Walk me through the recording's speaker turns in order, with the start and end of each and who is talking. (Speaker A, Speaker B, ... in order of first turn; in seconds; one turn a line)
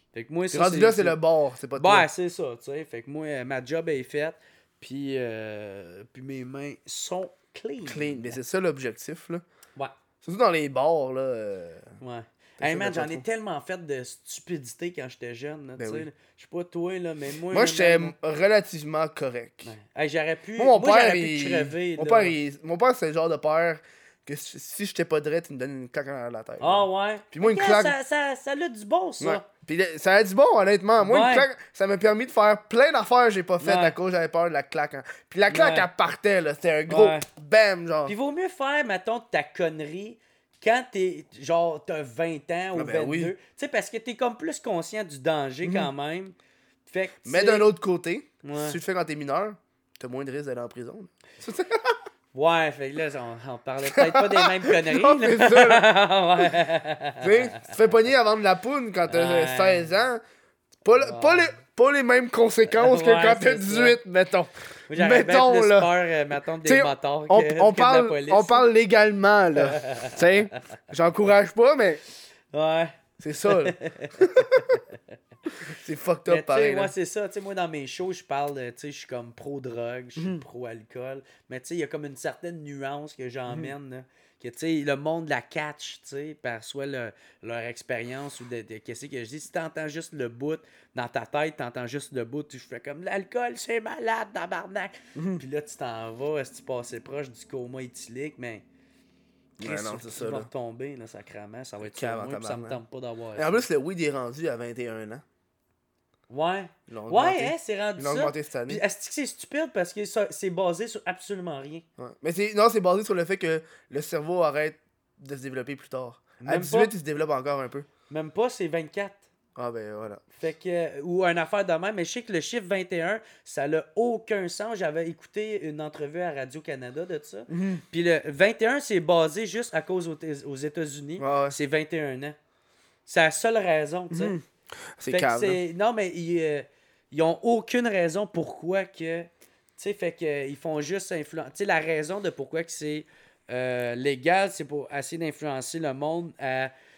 Speaker A: 0.1-1.2
Speaker B: 0.5-2.1
Speaker A: 1.8-8.4
Speaker B: 7.8-9.4
Speaker B: 10.2-11.9
Speaker A: 12.0-18.1
Speaker B: 12.6-13.2
Speaker B: 15.8-16.1
Speaker B: 17.5-19.7
Speaker A: 19.6-22.4
Speaker B: 20.6-27.9
Speaker A: 26.6-29.4
Speaker B: 29.2-38.1
Speaker A: 31.0-31.5
Speaker A: 33.6-33.9
Speaker A: 35.5-35.9
Speaker A: 36.9-37.2
Speaker A: 38.0-46.3
Speaker B: 42.7-43.3
Speaker B: 45.6-45.9
Speaker A: 46.9-47.7
Speaker B: 47.2-52.0
Speaker A: 48.4-48.8
Speaker A: 52.3-57.7
Speaker B: 53.9-55.8
Speaker B: 57.2-60.2
Speaker A: 59.1-59.9
Speaker B: 60.8-65.9
Speaker A: 61.0-61.5
Speaker A: 62.7-64.0
Speaker A: 64.9-68.7
Speaker B: 66.6-72.0
Speaker A: 69.6-70.2
Speaker A: 72.5-74.8
Speaker B: 73.2-74.8
Speaker B: 75.7-76.9
Speaker A: 76.3-98.6
Speaker B: 80.2-80.4
Speaker B: 95.2-95.4
Speaker B: 99.6-100.5
Speaker A: 99.6-103.6
Speaker B: 101.8-102.8
Speaker B: 103.3-105.2
Speaker A: 106.3-111.8
Speaker B: 106.9-108.8
Speaker B: 112.0-117.9
Speaker A: 116.4-116.9
Speaker A: 118.1-119.2
Speaker B: 119.5-120.2
Speaker A: 120.3-132.3
Speaker B: 127.5-127.8
Speaker B: 131.2-131.6
Speaker A: 133.1-134.3
Speaker B: 134.1-134.4
Speaker B: 135.0-135.6
Speaker A: 135.1-146.7